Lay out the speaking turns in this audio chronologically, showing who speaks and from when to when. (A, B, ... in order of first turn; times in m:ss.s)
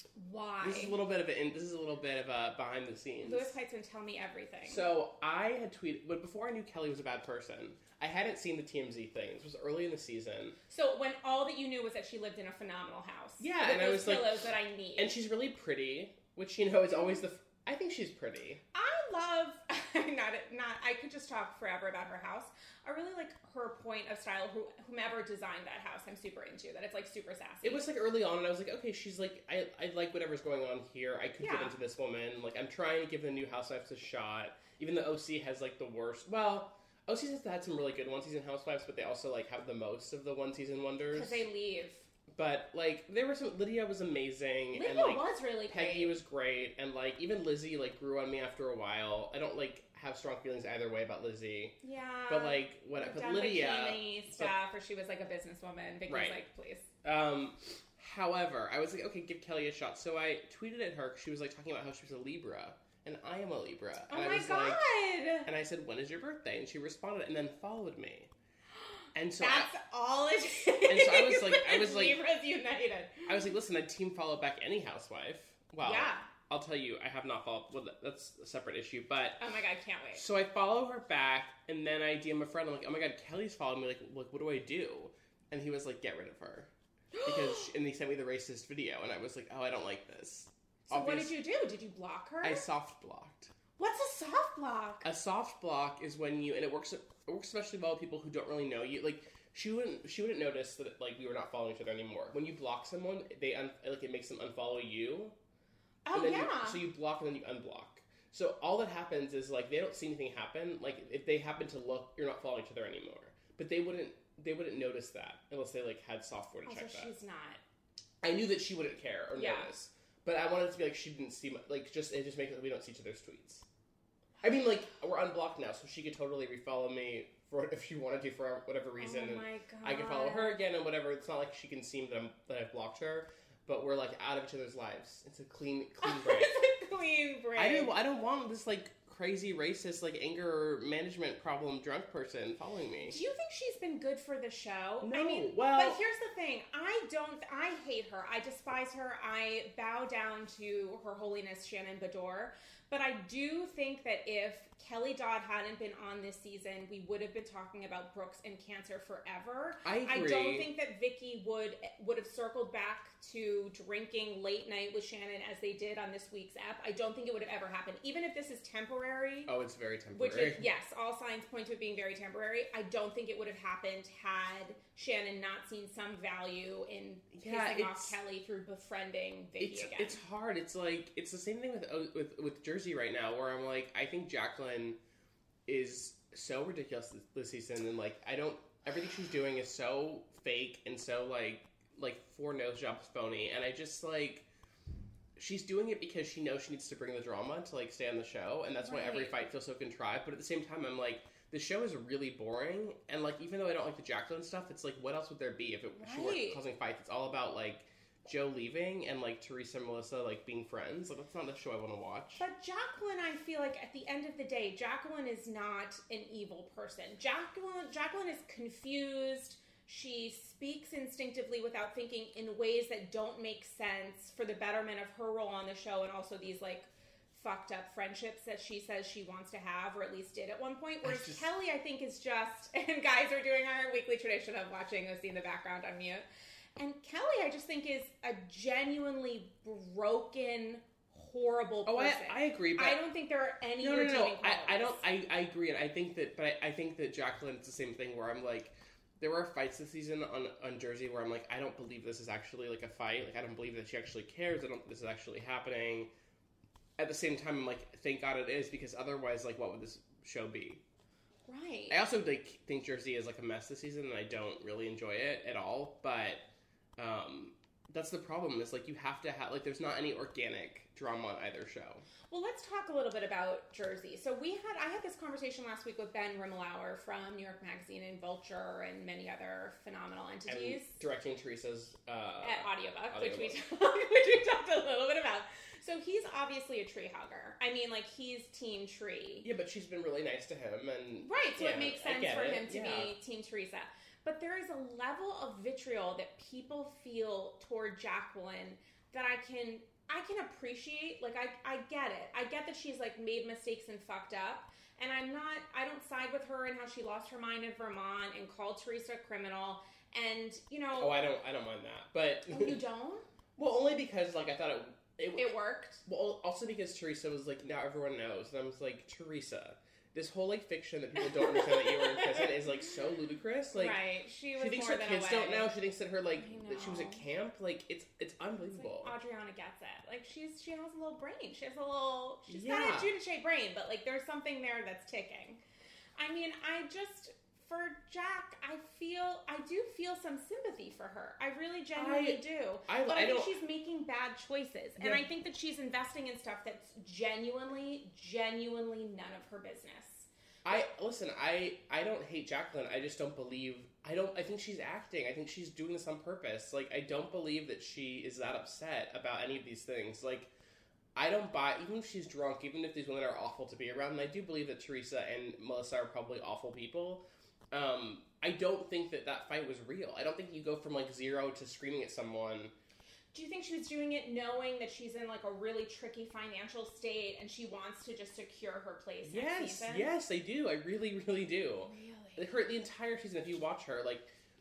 0:00.2-0:01.0 A
0:00.6-0:03.5 B
0:03.2-0:04.9 A
0:04.6-0:10.6 B
0:10.7-0:15.1 A
0:13.4-0:14.4 B
0:15.0-0:18.6 B
0:18.7-0:27.8 A
0:27.6-0:41.4 B
0:31.4-0:31.8 A
0:41.1-0:42.1 A
0:42.4-0:51.8 B
0:44.7-0:46.2 A
0:51.8-0:56.9 A
0:52.3-0:54.5 B
0:56.1-0:56.4 B
0:57.0-1:04.8 B
1:04.1-1:05.5 A
1:05.4-1:08.3 B
1:09.2-1:09.7 B
1:09.4-1:13.5 A
1:10.9-1:12.2 B
1:13.3-1:19.4 B
1:15.8-1:16.3 A
1:19.4-1:20.2 A
1:20.2-1:26.7 B
1:27.1-1:27.7 A
1:27.2-1:31.3 B
1:30.9-1:32.6 A
1:32.4-1:33.5 B
1:33.8-1:35.1 A
1:35.0-1:45.4 B
1:46.1-1:46.8 A
1:46.1-1:57.1 B
1:56.7-1:57.6 A
1:58.2-2:03.6 B
1:59.4-1:59.7 A
2:04.4-2:16.7 B
2:09.0-2:10.6 A
2:16.0-2:17.9 A
2:17.6-2:23.2 B
2:23.1-2:49.5 A
2:25.0-2:26.0 B
2:39.8-2:40.7 B
2:49.5-2:50.7 B
2:50.1-3:00.2 A
2:57.3-2:58.2 B
2:59.6-3:05.0 B
3:05.7-3:14.5 B
3:15.4-3:32.4 B
3:18.8-3:19.4 A
3:26.0-3:26.6 A
3:32.4-3:56.2 A
3:51.0-3:51.5 B
3:56.8-4:05.0 A
4:01.9-4:03.0 B
4:03.8-4:16.1 B
4:17.0-4:20.8 B
4:21.5-4:22.0 A
4:21.9-4:26.4 B
4:27.0-4:32.0 B
4:32.3-4:41.0 A
4:40.5-4:43.6 B
4:42.4-4:49.5 A
4:49.4-4:53.2 B
4:51.2-5:11.2 A
5:11.0-5:12.8 B
5:12.5-5:13.2 A
5:13.6-5:24.0 B
5:15.4-5:16.0 A
5:21.2-5:22.6 A
5:23.8-5:25.7 A
5:24.6-5:29.1 B
5:26.4-5:27.2 A
5:28.8-5:35.6 A
5:32.5-5:33.1 B
5:36.2-5:50.3 A
5:42.0-5:43.5 B
5:45.0-5:45.2 B
5:50.6-6:00.5 B
6:01.2-6:12.7 B
6:13.3-6:20.1 A
6:19.2-6:24.3 B
6:21.9-6:22.5 A